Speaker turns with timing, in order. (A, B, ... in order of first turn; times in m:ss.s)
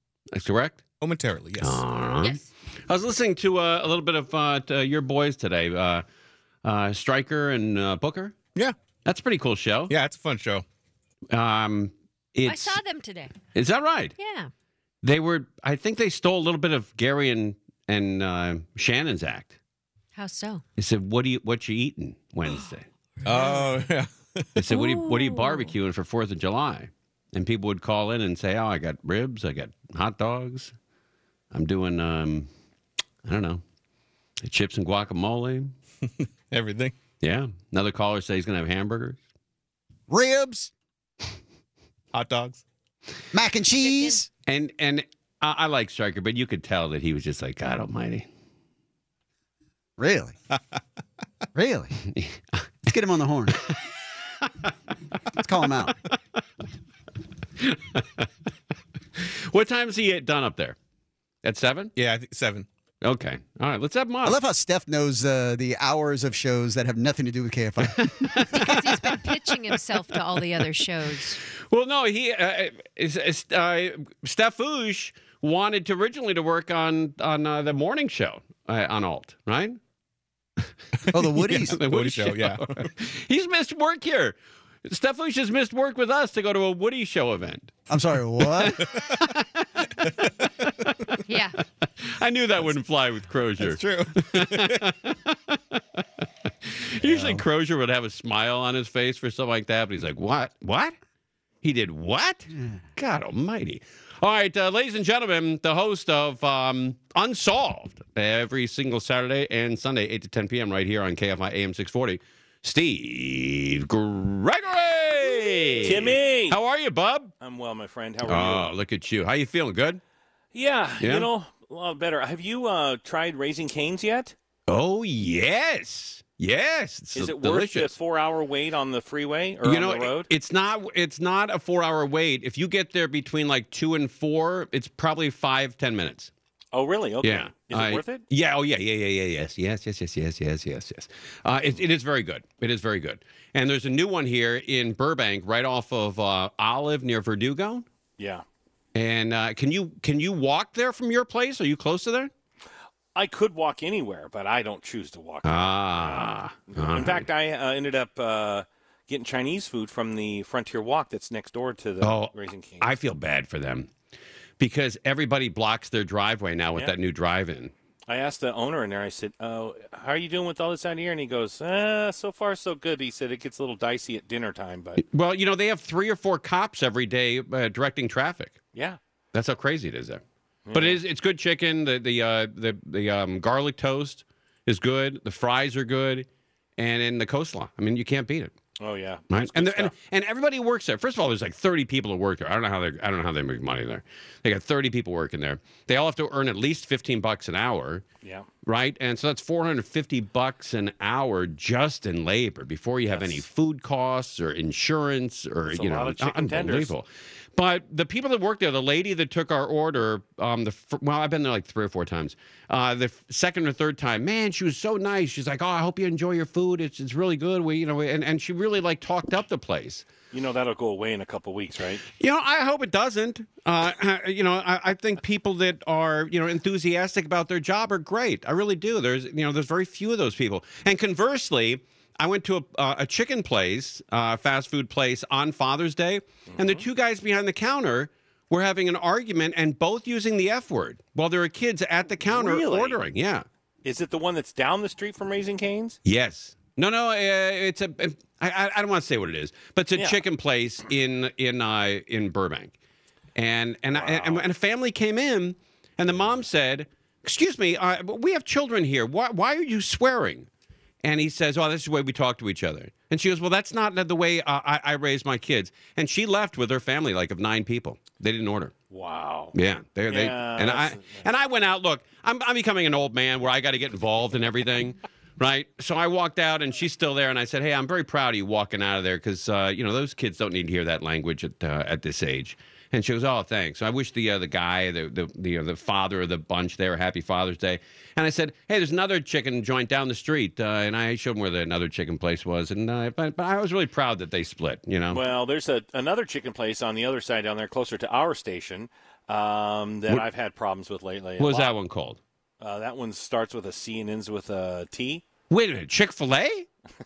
0:00.3-0:00.8 A
0:01.0-0:01.8 B
0:01.6-0:06.0 A
0:06.6-0:08.4 A
0:09.0-0:09.9 A
0:09.9-0:10.6 B
0:11.3-0:12.8 A
0:12.4-0:13.4 C
0:13.5-0:14.2 A
0:14.2-0:14.5 C
0:15.0-0:19.6 A
0:20.2-0:20.6 C
0:20.8-0:22.9 A
0:23.2-0:24.4 B
0:23.3-0:23.7 C
0:24.6-0:30.7 A
0:24.7-0:25.7 C
0:31.5-0:32.5 A
0:33.2-0:33.6 A
0:34.4-0:35.7 A
0:36.5-0:37.0 B
0:37.2-0:39.2 A
0:40.1-0:40.7 D
0:42.1-0:42.6 B
0:43.3-0:44.3 D
0:43.8-0:44.2 C
0:44.5-0:48.3 A
0:50.0-0:50.4 D
0:51.5-0:52.0 D
0:52.9-0:53.6 D
0:55.3-0:56.0 D
0:57.6-0:58.3 A
0:59.2-1:00.8 A
1:01.4-1:01.9 A
1:02.0-1:02.7 B
1:03.0-1:04.4 A
1:04.2-1:08.4 D
1:07.9-1:09.8 A
1:08.5-1:11.4 C
1:11.6-1:19.8 A
1:20.6-1:27.7 A
1:21.1-1:21.8 D
1:21.7-1:22.8 B
1:27.9-1:29.1 D
1:29.2-1:31.0 A
1:31.3-1:31.6 C
1:32.0-1:36.0 A
1:33.6-1:34.8 B
1:36.6-1:41.0 A
1:37.0-1:37.4 D
1:41.6-1:57.3 A
1:55.8-1:56.6 E
1:57.4-1:58.7 E
1:58.3-2:00.0 A
2:00.5-2:04.4 E
2:01.0-2:01.3 A
2:04.7-2:07.9 A
2:07.2-2:10.3 E
2:09.6-2:16.3 A
2:16.7-2:18.2 E
2:17.2-2:27.9 A
2:28.2-2:28.4 E
2:29.0-2:32.3 A
2:33.2-2:42.9 E
2:35.4-2:37.3 A
2:42.0-2:43.9 A
2:44.6-2:47.7 A
2:48.1-2:55.0 E
2:55.0-2:58.6 A
2:58.7-2:59.0 E
2:59.3-3:00.2 A
3:00.7-3:01.0 E
3:00.7-3:08.5 A
3:08.8-3:09.9 E
3:09.3-3:18.0 A
3:18.6-3:40.1 A
3:23.1-3:23.4 E
3:25.7-3:26.9 E
3:40.3-3:42.0 E
3:42.2-4:03.5 A
3:56.5-3:56.8 E
4:02.2-4:03.0 E
4:03.8-4:06.0 E
4:06.0-4:12.7 A
4:10.0-4:10.2 E
4:13.4-4:20.5 A
4:13.9-4:14.4 E
4:21.0-4:28.7 A
4:28.9-4:29.6 E
4:29.5-4:55.2 A
4:30.1-4:31.2 E
4:55.1-5:01.7 E
5:01.4-5:02.2 A
5:02.6-5:05.2 E
5:05.5-5:06.7 A